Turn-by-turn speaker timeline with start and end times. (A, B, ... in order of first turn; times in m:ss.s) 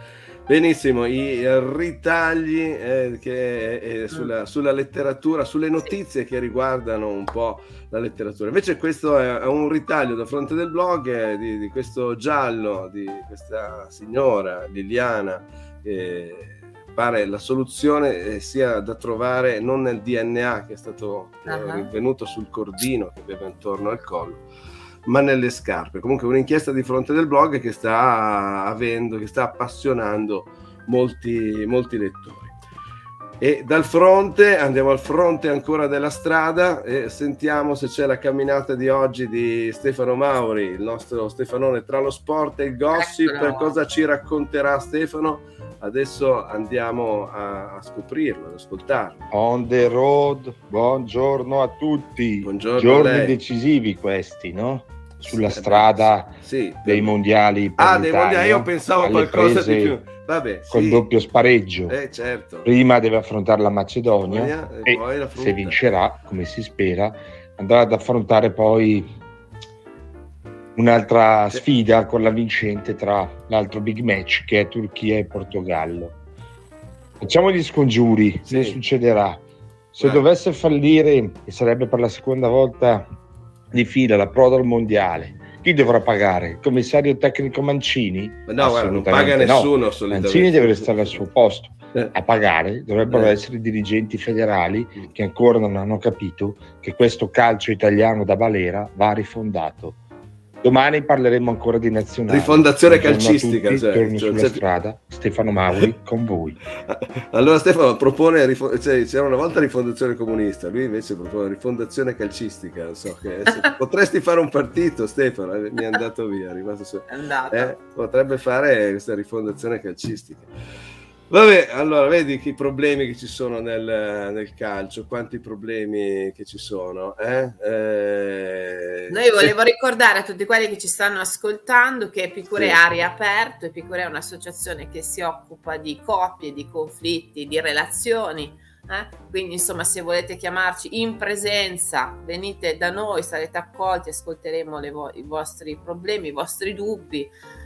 0:00.5-0:24.4 A
0:21.5-0:21.9 B
0:25.0-0:32.5 A
0:33.4-0:49.2 A
0:42.9-0:43.8 B
0:49.3-0:56.3 C
0:52.4-0:53.4 A
0:55.2-0:57.2 A
0:56.8-1:00.0 C
0:57.8-1:01.1 A
1:00.7-1:02.0 C
1:01.9-1:02.7 A
1:02.6-1:09.1 C
1:04.3-1:05.8 A
1:10.8-1:16.1 C
1:17.2-1:19.4 C
1:18.4-1:18.8 A
1:19.9-1:23.1 C
1:23.7-1:40.0 C
1:28.5-1:31.2 A
1:33.0-1:33.4 A
1:40.6-1:46.6 C
1:42.3-1:44.6 A
1:46.9-2:00.5 A
1:57.1-1:57.7 B
2:01.3-2:09.5 A
2:09.1-2:27.3 B
2:12.5-2:12.8 A